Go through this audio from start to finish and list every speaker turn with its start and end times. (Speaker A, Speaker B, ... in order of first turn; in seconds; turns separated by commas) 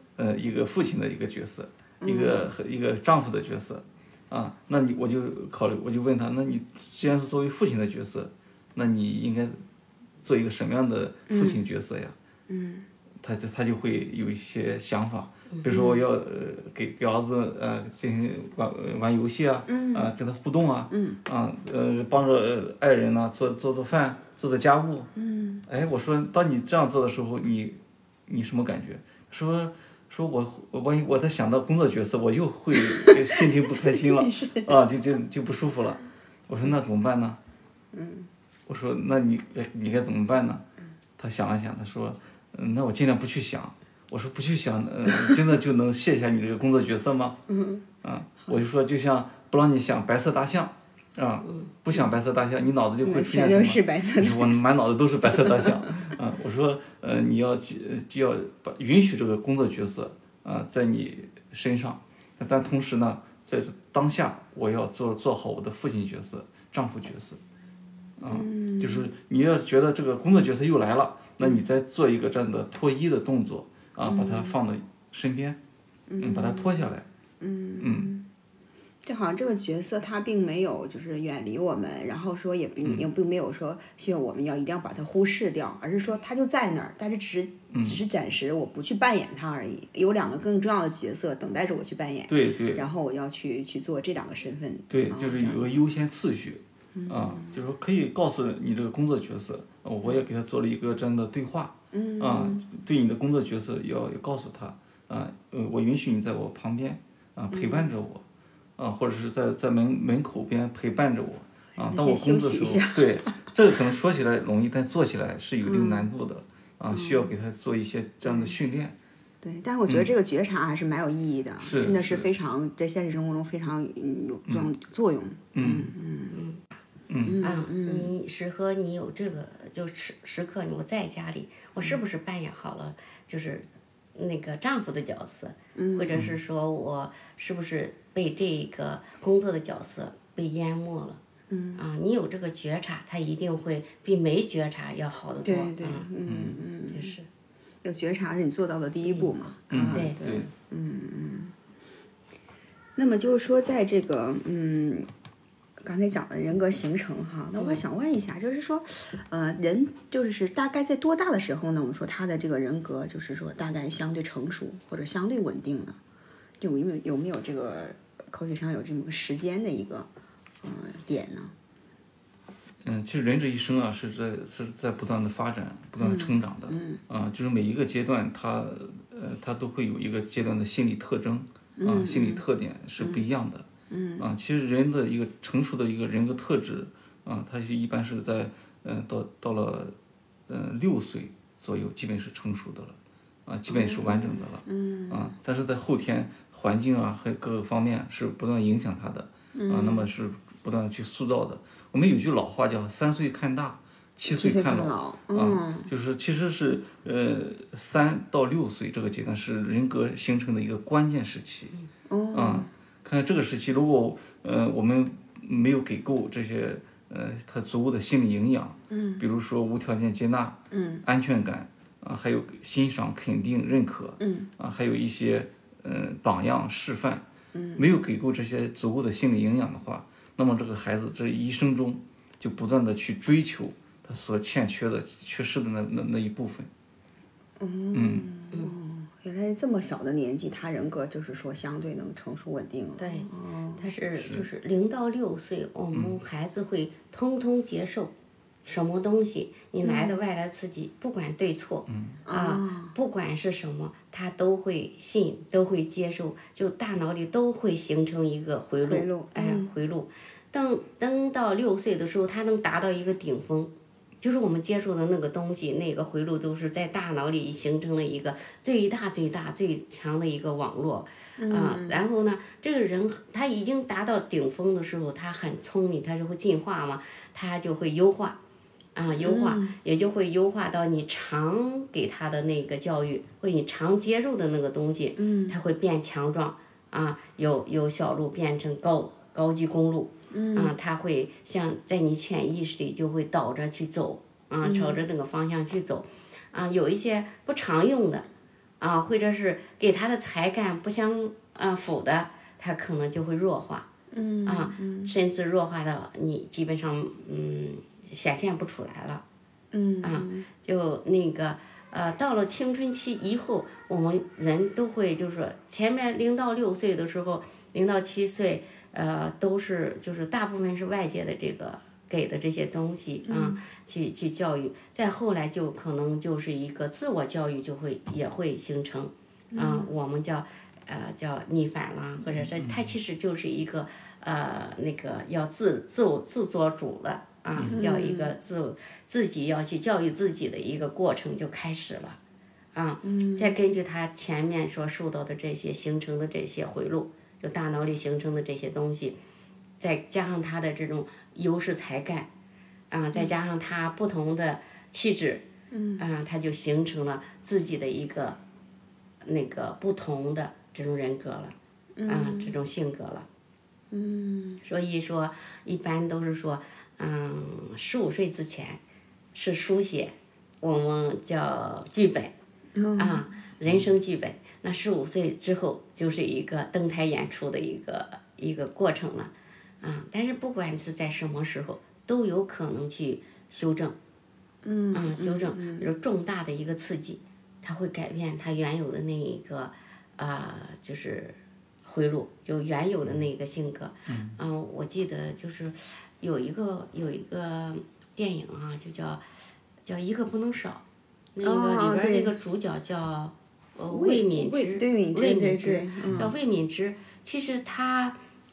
Speaker A: 0.2-9.6, Speaker B: 2.0-2.5, Speaker A: 10.2-12.1, Speaker B: 11.3-11.6, Speaker B: 12.5-12.8, Speaker A: 13.2-25.1, Speaker B: 15.7-16.0, Speaker B: 19.7-20.1, Speaker B: 20.9-21.2, Speaker B: 25.1-25.6, Speaker A: 25.7-37.4, Speaker B: 32.7-34.7, Speaker B: 37.9-38.3, Speaker A: 38.7-40.6, Speaker A: 41.2-47.4, Speaker B: 47.5-47.8, Speaker A: 48.0-67.4, Speaker B: 53.0-54.5, Speaker B: 55.3-55.8, Speaker A: 68.2-75.6, Speaker B: 68.3-69.1, Speaker B: 74.0-74.6, Speaker B: 76.1-78.3, Speaker A: 76.2-77.0, Speaker A: 77.8-78.1, Speaker B: 79.0-95.7, Speaker A: 87.7-88.0, Speaker A: 92.3-92.8, Speaker A: 94.9-108.2, Speaker B: 96.9-97.6, Speaker B: 101.9-102.6, Speaker B: 107.5-107.9, Speaker A: 108.8-118.9, Speaker B: 111.8-113.2, Speaker B: 115.6-116.1, Speaker B: 116.9-117.3, Speaker B: 118.2-118.6, Speaker B: 119.4-126.4, Speaker A: 121.6-122.3, Speaker A: 125.5-125.9, Speaker C: 126.3-126.8, Speaker A: 127.1-127.4, Speaker B: 127.2-128.1, Speaker C: 127.4-141.2, Speaker B: 135.7-136.2, Speaker B: 141.5-141.8, Speaker C: 141.8-146.1, Speaker B: 145.4-147.1, Speaker A: 146.2-146.6, Speaker C: 146.9-147.3, Speaker B: 147.8-151.5, Speaker A: 149.7-150.5, Speaker C: 149.9-150.2, Speaker B: 152.9-155.1, Speaker B: 155.8-166.0, Speaker B: 166.6-170.1, Speaker B: 170.6-171.5, Speaker A: 172.8-183.7, Speaker B: 176.0-177.0, Speaker B: 181.8-182.4, Speaker B: 183.0-183.2, Speaker B: 183.9-184.3, Speaker A: 184.2-189.9, Speaker A: 190.5-211.8, Speaker B: 193.7-195.3, Speaker B: 199.5-200.1, Speaker B: 204.3-205.9, Speaker B: 212.1-212.7, Speaker A: 212.3-227.2, Speaker B: 218.9-219.2, Speaker B: 220.7-221.0, Speaker B: 224.2-224.5, Speaker B: 227.5-227.8, Speaker A: 227.8-236.7, Speaker B: 237.6-243.8, Speaker A: 237.9-238.3, Speaker C: 243.0-248.1, Speaker A: 244.2-244.4, Speaker A: 245.9-246.2, Speaker C: 248.6-278.4, Speaker B: 249.8-250.2, Speaker A: 251.9-252.2, Speaker B: 252.2-252.9, Speaker B: 258.8-259.7, Speaker B: 271.4-272.0, Speaker C: 278.9-298.2, Speaker B: 279.2-279.7, Speaker B: 285.2-285.6, Speaker B: 290.3-290.7, Speaker B: 294.6-295.0, Speaker C: 298.8-303.9, Speaker B: 304.1-305.1, Speaker C: 304.4-309.2, Speaker B: 309.7-310.5, Speaker C: 310.0-342.2, Speaker B: 323.2-323.6, Speaker B: 329.5-329.9, Speaker A: 332.3-332.9, Speaker B: 337.7-338.3, Speaker C: 342.7-349.1, Speaker B: 343.0-343.5, Speaker C: 349.8-352.3, Speaker C: 352.9-355.4, Speaker B: 355.7-356.0, Speaker C: 356.0-358.4, Speaker C: 359.2-361.5, Speaker B: 361.9-362.5, Speaker C: 362.1-363.3, Speaker B: 363.9-364.6, Speaker C: 364.6-368.8, Speaker C: 369.3-372.3, Speaker B: 372.7-373.2, Speaker C: 373.0-379.3, Speaker C: 379.8-383.9, Speaker B: 384.6-385.9, Speaker C: 384.9-399.2, Speaker A: 394.1-394.4, Speaker C: 399.8-400.8, Speaker C: 401.4-408.1, Speaker B: 401.4-402.3, Speaker B: 403.9-406.3, Speaker A: 406.1-406.3